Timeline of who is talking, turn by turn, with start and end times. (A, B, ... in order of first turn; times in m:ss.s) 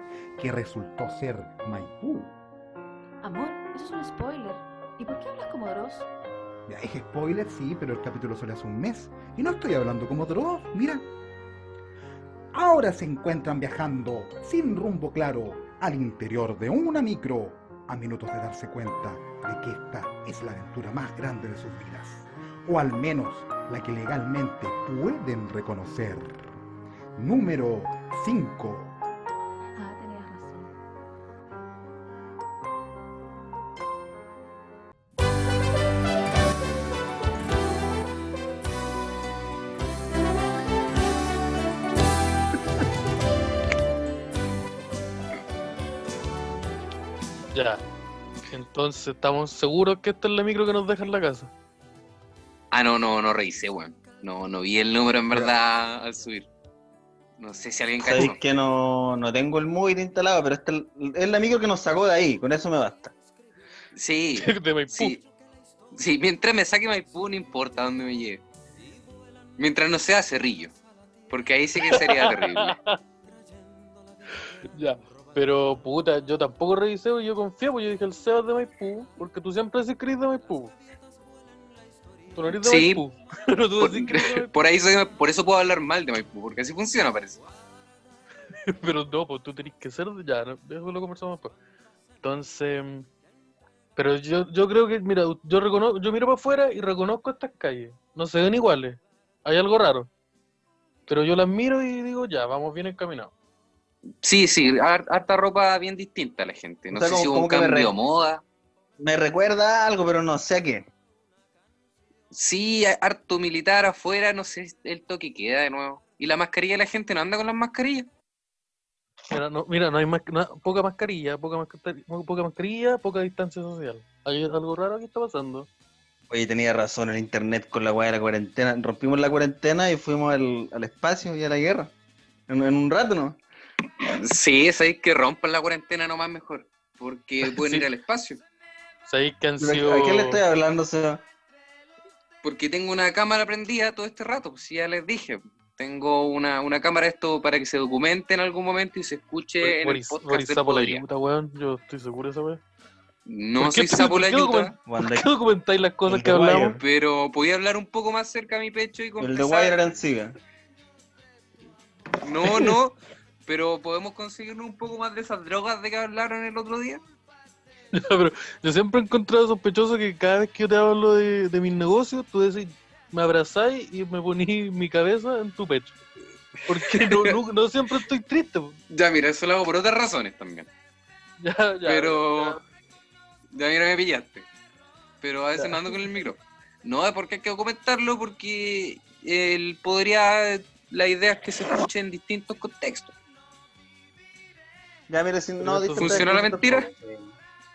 0:00.4-0:02.4 A
0:03.2-0:06.1 B
0:06.7-0:11.1 A
0:12.5-0:26.4 A
0:27.2-0:29.0 A
0:29.8-0:30.7 B
0:47.5-0:47.8 C
0:48.5-0:51.5 C
0:52.7-0:56.5 D
0:57.4-0:58.4 D
0:58.0-1:03.1 E
1:04.0-1:05.2 D
1:04.4-1:05.2 C
1:05.9-1:08.4 D
1:09.6-1:10.7 D
1:11.3-1:12.8 D
1:11.8-1:13.0 C
1:14.7-1:20.8 C
1:22.4-1:24.5 C
1:22.6-1:23.0 D
1:23.8-1:27.4 D
1:28.7-1:31.5 C
1:32.2-1:33.1 C
1:34.0-1:40.1 C
1:41.1-1:43.3 C
1:44.2-1:48.4 D
1:46.9-1:47.9 E
1:49.0-1:50.9 E
1:52.3-1:58.1 D
1:59.3-2:05.7 C
2:06.3-2:11.9 E
2:12.5-2:13.4 E
2:14.2-2:18.4 D
2:17.4-2:17.9 C
2:19.1-2:20.4 C
2:19.6-2:21.2 E
2:22.4-2:31.0 D
2:29.6-2:32.6 C
2:33.3-2:34.7 D
2:33.6-2:36.8 C
2:34.9-2:35.3 E
2:36.1-2:36.8 E
2:36.8-2:39.8 D
2:39.2-2:40.4 E
2:42.2-2:47.0 D
2:47.9-2:56.0 C
2:56.7-2:58.8 C
2:56.8-2:57.4 D
2:58.9-3:00.7 D
3:01.4-3:02.6 C
3:01.8-3:02.6 D
3:03.5-3:04.5 D
3:05.2-3:13.1 D
3:05.6-3:06.0 C
3:15.1-3:17.3 E
3:15.6-3:16.3 C
3:16.0-3:16.9 D